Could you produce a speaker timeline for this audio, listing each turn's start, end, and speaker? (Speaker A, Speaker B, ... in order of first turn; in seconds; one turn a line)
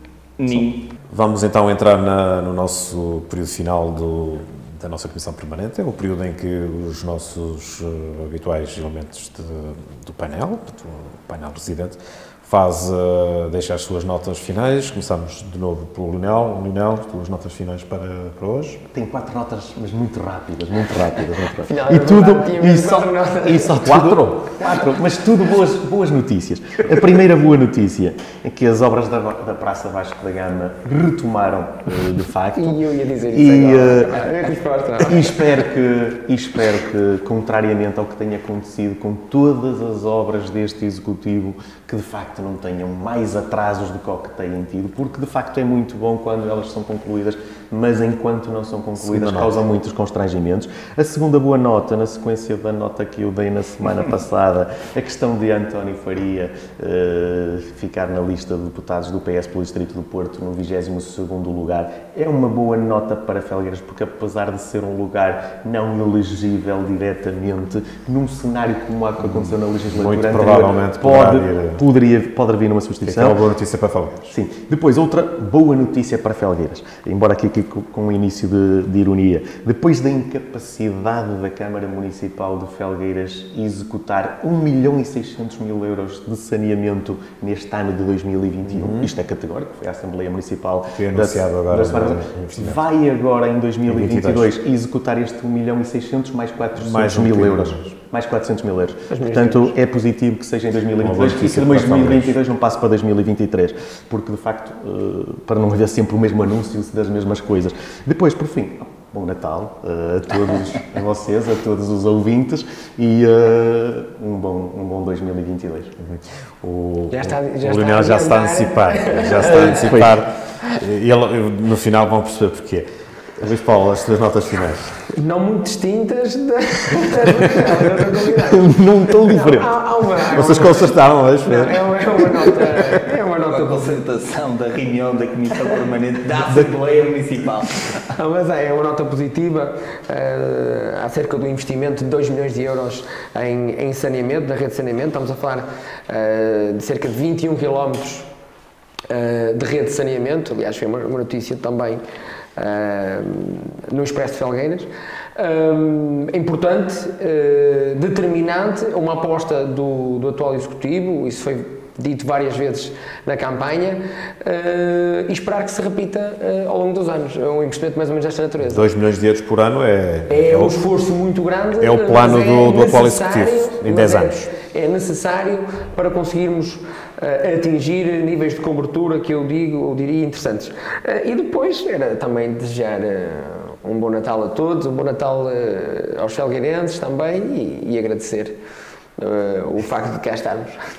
Speaker A: 0.4-0.9
Speaker B: 1.1-18.8
Speaker C: 18.9-34.2
Speaker D: 21.6-23.9
Speaker B: 23.8-24.4
Speaker D: 32.6-35.3
Speaker C: 35.0-73.4
Speaker B: 49.0-49.6
Speaker B: 69.2-71.8
Speaker B: 73.0-74.3
Speaker C: 74.3-115.9
Speaker B: 88.7-89.1
Speaker B: 91.0-92.8
Speaker B: 93.9-94.5
Speaker B: 96.8-98.0
Speaker D: 99.1-99.7
Speaker B: 101.0-102.3
Speaker B: 116.0-122.9
Speaker D: 117.1-120.0
Speaker C: 119.5-120.1
Speaker B: 123.4-125.0
Speaker D: 125.1-134.0
Speaker C: 128.4-129.7
Speaker B: 130.3-131.9
Speaker A: 133.5-137.9
Speaker D: 138.1-148.3
Speaker D: 149.1-152.0
Speaker D: 152.6-168.8
Speaker B: 168.6-170.8
Speaker D: 170.3-188.6
Speaker B: 171.8-174.5
Speaker D: 189.2-190.8